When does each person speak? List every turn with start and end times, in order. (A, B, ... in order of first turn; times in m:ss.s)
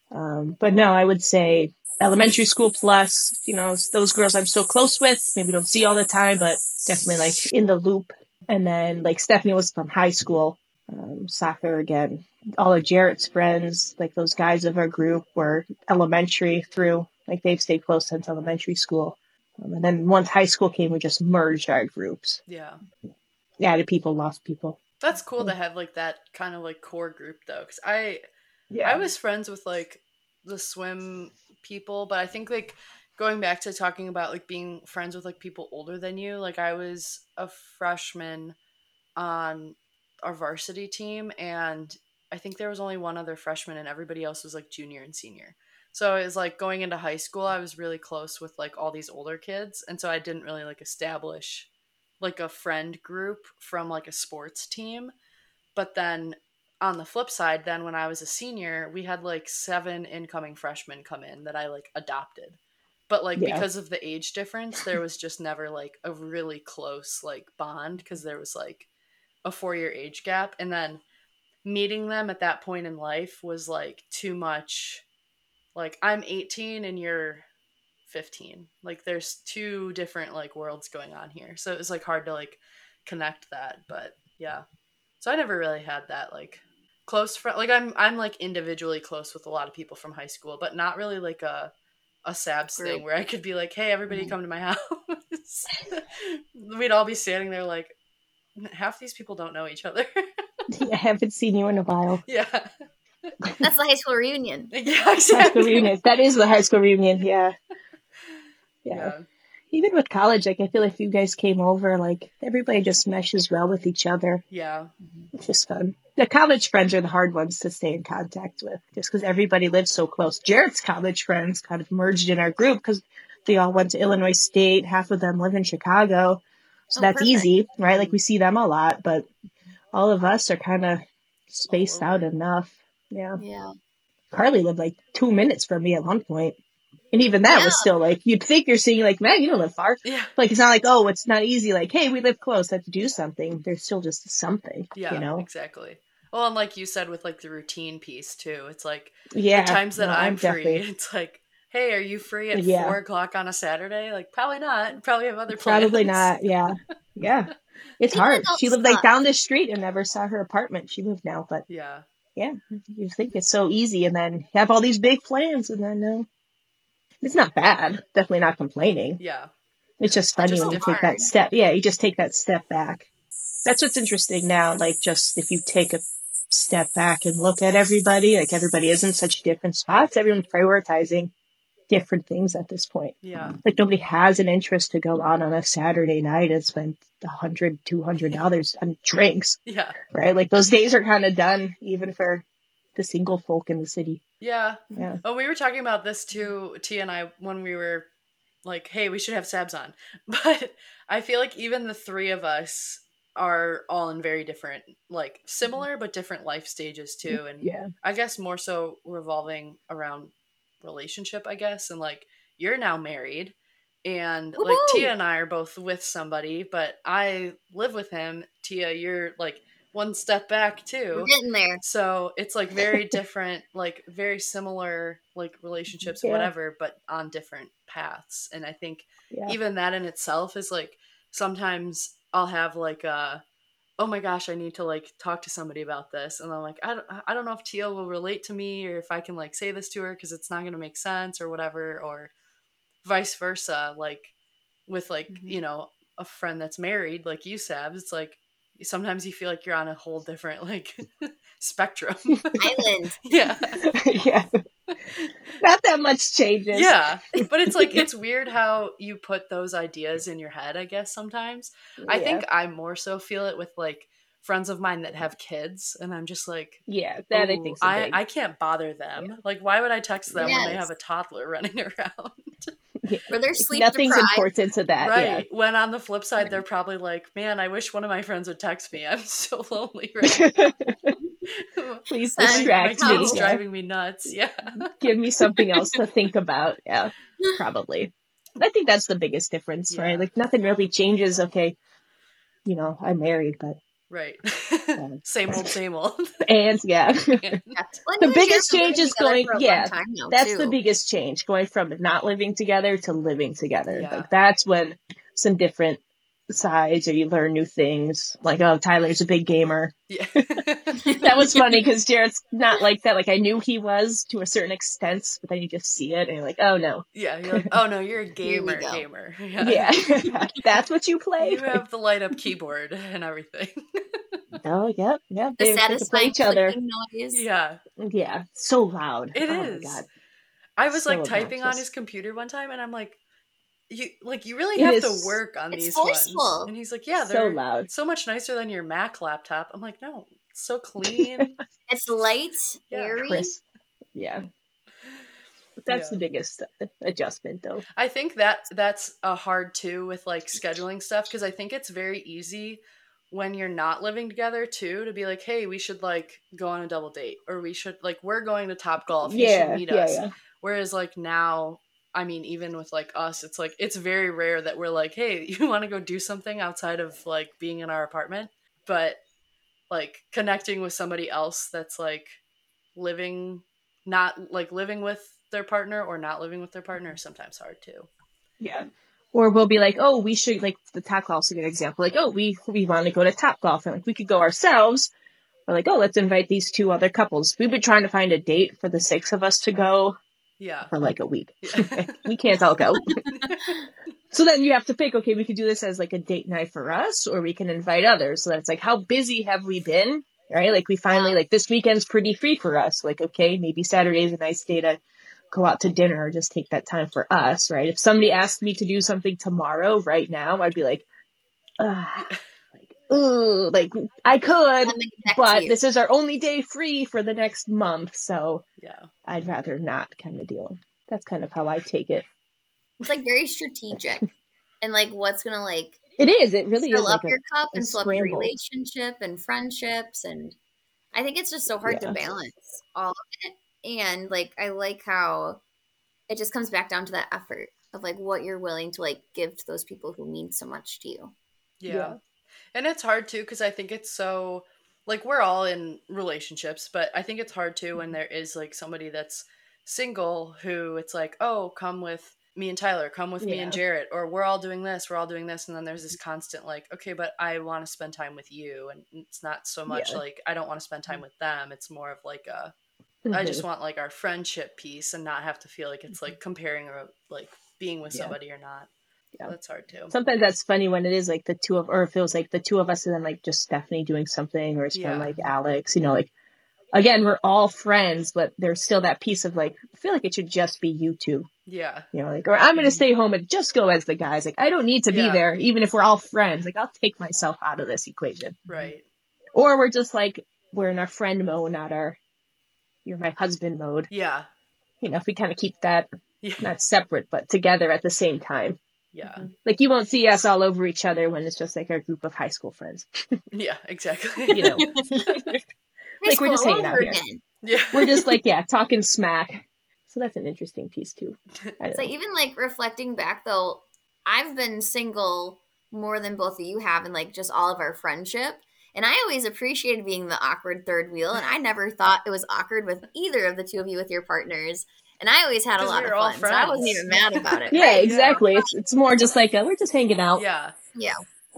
0:00.1-0:22.4 A
0:22.5-0:22.8 B
0:23.6-0:24.8 A
0:25.0-0:28.2 B
0:28.7-0:29.1 A
0:28.8-0:38.5 B
0:39.2-0:51.7 B
0:52.2-0:55.1 B
0:55.7-1:08.9 B
1:03.4-1:03.6 A
1:09.4-1:11.0 B
1:11.6-1:15.0 B
1:15.7-1:17.4 B
1:18.1-1:24.6 B
1:25.2-1:31.7 B
1:32.2-1:37.9 B
1:32.8-1:33.0 C
1:38.6-1:40.2 B
1:40.7-1:42.2 A
1:42.2-1:42.7 B
1:43.6-1:44.7 C
1:44.7-1:45.9 B
1:45.3-1:47.5 A
1:48.8-1:49.1 A
1:48.9-1:49.2 B
1:49.7-1:54.4 A
1:54.5-1:54.9 B
1:55.3-2:06.4 A
2:06.9-2:07.5 C
2:07.0-2:09.3 A
2:07.9-2:08.2 B
2:09.9-2:13.4 A
2:11.7-2:12.2 B
2:13.4-2:13.7 C
2:14.3-2:16.6 A
2:17.1-2:25.5 A
2:17.5-2:17.9 C
2:20.0-2:20.3 B
2:24.9-2:36.3 B
2:29.3-2:30.8 A
2:32.5-2:33.0 A
2:35.5-2:41.6 A
2:38.1-2:39.0 C
2:41.7-2:42.0 B
2:42.4-2:46.3 A
2:47.2-2:49.2 A
2:49.2-2:49.5 B
2:50.0-2:53.1 A
2:50.4-2:51.3 C
2:50.4-2:51.2 B
2:53.6-3:01.3 A
3:01.9-3:12.4 A
3:03.2-3:03.6 B
3:09.6-3:10.0 B
3:12.9-3:14.2 A
3:14.4-3:18.1 B
3:14.9-3:15.2 A
3:18.6-3:30.3 B
3:27.3-3:27.9 A
3:30.8-3:53.4 B
3:34.6-3:35.1 C
3:41.1-3:41.8 C
3:46.2-3:46.5 A
3:49.3-3:49.6 A
3:54.0-4:02.3 B
4:03.0-4:04.3 B
4:04.9-4:13.8 B
4:12.6-4:13.2 C
4:13.7-4:14.5 A
4:15.5-4:16.9 A
4:16.7-4:32.7 B
4:17.7-4:18.0 A
4:22.0-4:22.4 A
4:26.9-4:28.2 A
4:30.3-4:30.7 A
4:30.4-4:30.9 C
4:33.0-4:35.4 A
4:33.3-4:34.5 C
4:35.0-4:40.8 B
4:40.2-4:41.2 A
4:41.6-4:44.9 B
4:42.1-4:43.6 A
4:42.4-4:43.4 C
4:44.9-4:51.8 A
4:49.9-4:50.3 B
4:52.6-4:53.8 A
4:54.1-4:56.3 B
4:55.0-4:55.7 A
4:56.4-4:57.5 A
4:57.4-4:57.7 B
4:57.7-5:00.8 C
4:58.2-5:09.9 A
5:03.9-5:04.3 B
5:10.1-5:11.2 B
5:11.0-5:11.3 C
5:11.2-5:17.7 A
5:17.1-5:19.9 B
5:18.4-5:19.0 C
5:19.6-5:21.8 A
5:21.4-5:24.4 B
5:24.6-5:26.8 A
5:25.6-5:27.4 C
5:27.3-5:27.8 B
5:28.0-5:30.0 A
5:29.3-5:30.0 B
5:30.8-5:33.2 B
5:30.9-5:31.8 A
5:33.9-5:41.5 B
5:34.8-5:35.4 A
5:35.7-5:36.7 C
5:37.2-5:37.9 A
5:41.0-5:41.5 A
5:41.9-5:43.5 C
5:42.9-5:43.2 B
5:43.2-5:43.6 A
5:44.1-5:44.4 A
5:45.8-5:47.8 A
5:45.9-5:46.2 B
5:48.0-6:09.2 B
5:59.2-6:00.3 A
6:09.9-6:12.4 B
6:13.0-6:18.1 B
6:18.6-6:25.1 A
6:25.7-6:30.2 A
6:30.6-6:30.9 B
6:30.9-6:33.2 A
6:31.6-6:32.3 B
6:33.1-6:33.6 C
6:33.3-6:33.7 B
6:34.3-6:45.0 A
6:41.1-6:41.4 C
6:45.5-6:51.0 A
6:51.8-6:58.6 A
6:54.8-6:55.8 C
6:58.8-6:59.1 B
6:59.2-7:02.2 A
7:03.0-7:04.3 C
7:04.8-7:06.0 C
7:06.2-7:08.5 A
7:06.8-7:10.6 C
7:11.1-7:15.6 C
7:11.8-7:12.2 A
7:16.3-7:21.3 C
7:21.8-7:22.2 B
7:21.9-7:22.2 A
7:22.7-7:42.7 B
7:33.4-7:33.8 A
7:39.9-7:40.2 A
7:43.2-7:43.6 A
7:43.3-7:48.9 B
7:49.4-7:50.1 B
7:50.1-7:56.3 A
7:54.9-7:55.5 B
7:56.9-8:01.5 A
8:01.7-8:02.1 B
8:02.1-8:08.7 A
8:05.1-8:05.4 B
8:08.7-8:09.0 B
8:09.5-8:12.2 A
8:13.0-8:14.1 A
8:14.1-8:14.5 B
8:15.0-8:16.1 A
8:16.4-8:16.7 B
8:16.6-8:18.8 A
8:19.1-8:19.4 B
8:19.4-8:23.4 A
8:23.5-8:25.5 B
8:24.5-8:25.6 A
8:24.7-8:25.1 C
8:26.2-8:27.4 C
8:26.2-8:27.2 A
8:27.6-8:28.3 B
8:27.9-8:32.1 A
8:31.9-8:48.7 C
8:45.8-8:48.4 B
8:47.7-8:50.4 A
8:50.4-8:50.7 B
8:50.9-8:51.2 C